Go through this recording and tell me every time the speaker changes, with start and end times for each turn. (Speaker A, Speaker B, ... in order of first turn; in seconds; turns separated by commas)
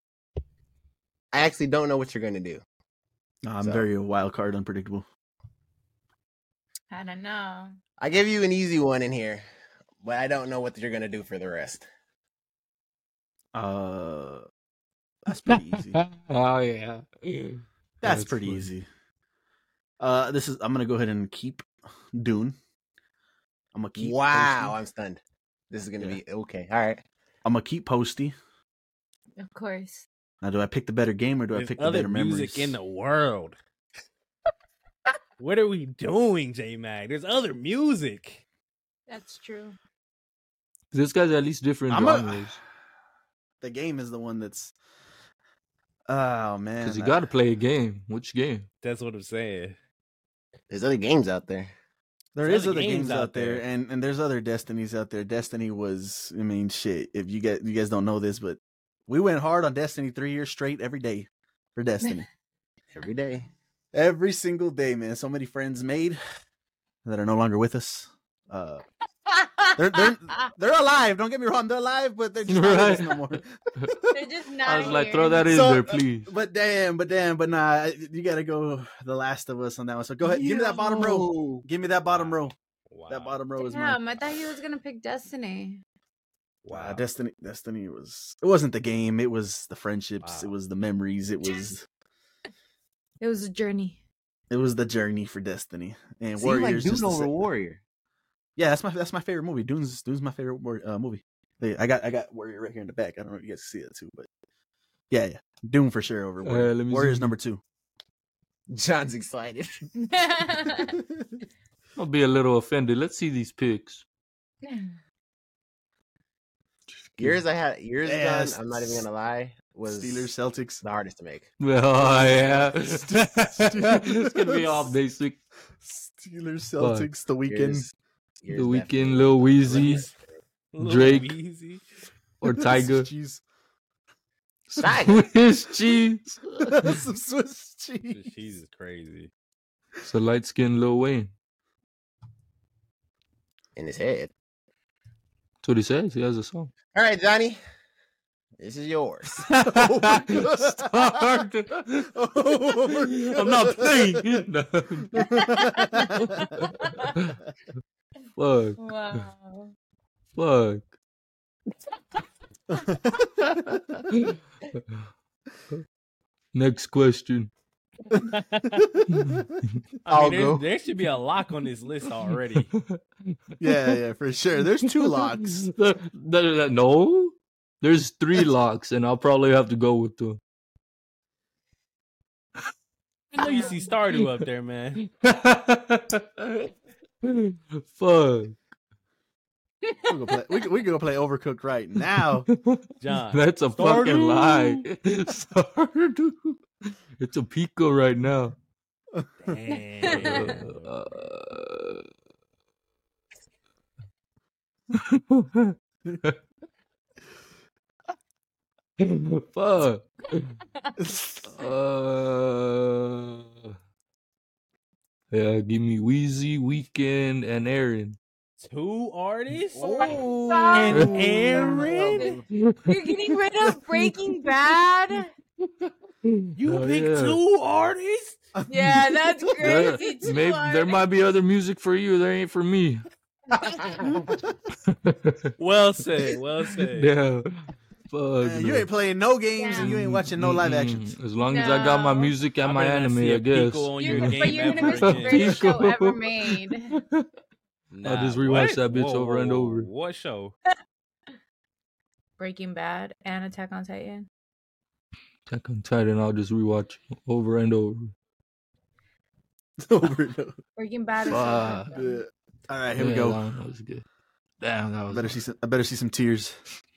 Speaker A: 1.3-2.6, Speaker B: 3.4-5.0, Speaker A: 3.6-3.9, Speaker C: 6.9-7.8, Speaker A: 8.0-9.4, Speaker A: 10.0-11.9, Speaker B: 13.5-14.4, Speaker B: 15.2-16.0, Speaker D: 15.5-18.6, Speaker B: 18.0-18.9, Speaker B: 20.0-22.6, Speaker B: 23.7-24.8, Speaker A: 24.0-27.0, Speaker B: 27.4-28.3, Speaker C: 29.4-30.1, Speaker B: 30.4-32.8, Speaker E: 31.5-33.6, Speaker E: 35.4-38.4, Speaker C: 39.1-39.8, Speaker D: 40.9-42.6, Speaker B: 41.9-42.5, Speaker B: 43.6-44.7, Speaker B: 46.1-47.1, Speaker D: 46.8-48.6, Speaker E: 48.8-49.8, Speaker A: 50.7-51.7, Speaker B: 52.3-62.2, Speaker E: 52.4-53.6, Speaker A: 62.9-63.5, Speaker B: 63.9-66.2, Speaker B: 67.0-68.8, Speaker C: 69.3-70.5, Speaker B: 69.8-74.3, Speaker D: 72.5-73.2, Speaker C: 74.1-75.6, Speaker D: 74.6-76.3, Speaker B: 75.5-82.5, Speaker A: 80.2-81.6, Speaker E: 82.1-83.4, Speaker B: 83.1-84.0, Speaker C: 83.6-85.8, Speaker E: 86.6-87.0, Speaker B: 86.7-91.8, Speaker E: 90.2-90.5, Speaker C: 93.2-94.0, Speaker B: 94.5-97.4, Speaker A: 96.4-97.8, Speaker B: 98.5-104.3, Speaker B: 105.1-107.6, Speaker D: 106.4-107.3, Speaker A: 108.7-109.8, Speaker C: 110.0-111.0, Speaker D: 112.0-114.0, Speaker C: 114.6-114.9, Speaker A: 117.2-121.5, Speaker B: 118.0-119.0, Speaker B: 119.8-120.8, Speaker D: 121.6-125.4, Speaker B: 122.0-124.9, Speaker B: 125.8-127.8, Speaker D: 126.8-127.1, Speaker A: 127.5-127.9, Speaker A: 128.4-130.2, Speaker D: 128.5-130.1, Speaker E: 129.7-130.1, Speaker E: 130.7-131.8, Speaker D: 130.8-131.3, Speaker D: 132.4-133.1, Speaker B: 132.5-133.4, Speaker D: 134.7-137.0, Speaker A: 134.8-135.3, Speaker B: 136.7-138.3, Speaker E: 138.1-139.3, Speaker D: 140.0-141.3, Speaker A: 143.8-144.3, Speaker D: 145.6-146.7, Speaker A: 146.9-147.6, Speaker A: 148.6-149.5, Speaker D: 149.5-152.1, Speaker B: 149.6-151.4, Speaker B: 152.1-154.4, Speaker D: 152.9-155.3, Speaker B: 155.1-156.5, Speaker C: 155.2-157.2, Speaker D: 156.2-157.4, Speaker D: 158.3-159.2, Speaker C: 158.8-159.7, Speaker D: 160.3-160.8, Speaker B: 162.7-164.0, Speaker D: 163.5-164.3, Speaker D: 166.5-167.5, Speaker E: 168.3-168.9, Speaker B: 168.9-170.6, Speaker D: 169.1-169.4, Speaker E: 170.0-172.7, Speaker D: 172.7-174.0, Speaker B: 173.6-175.7, Speaker D: 174.8-180.4, Speaker C: 183.3-183.9, Speaker E: 183.3-185.0, Speaker D: 185.0-186.7, Speaker D: 187.2-188.6, Speaker C: 189.8-190.1, Speaker B: 190.1-192.5, Speaker D: 192.5-196.6, Speaker E: 193.0-194.8, Speaker D: 197.2-198.5, Speaker E: 199.4-200.9, Speaker C: 199.7-200.6, Speaker D: 200.0-202.1, Speaker D: 204.9-206.3, Speaker D: 209.0-210.6, Speaker B: 211.0-211.6, Speaker D: 211.5-213.7, Speaker D: 215.3-218.2, Speaker E: 218.6-222.4, Speaker B: 219.7-222.4, Speaker C: 219.9-221.2, Speaker D: 220.9-221.2, Speaker C: 222.0-222.3, Speaker D: 222.5-224.1, Speaker C: 222.9-225.3, Speaker D: 225.6-227.4, Speaker E: 226.6-228.4, Speaker B: 228.5-230.0, Speaker C: 228.7-231.0, Speaker D: 229.6-233.1, Speaker C: 233.5-234.1, Speaker B: 234.0-234.4, Speaker D: 234.8-235.5, Speaker E: 235.6-237.1, Speaker D: 236.9-238.9, Speaker B: 238.4-241.1, Speaker C: 239.6-239.9, Speaker D: 239.7-247.3, Speaker C: 241.4-242.3, Speaker E: 242.6-245.7, Speaker C: 244.0-247.0, Speaker E: 247.9-250.6, Speaker D: 248.0-249.9, Speaker C: 252.4-254.3, Speaker D: 255.5-258.1, Speaker B: 259.8-260.6, Speaker C: 260.8-262.2, Speaker D: 261.2-261.9, Speaker B: 261.3-263.4, Speaker D: 263.0-264.0, Speaker D: 264.6-265.3, Speaker B: 265.1-266.6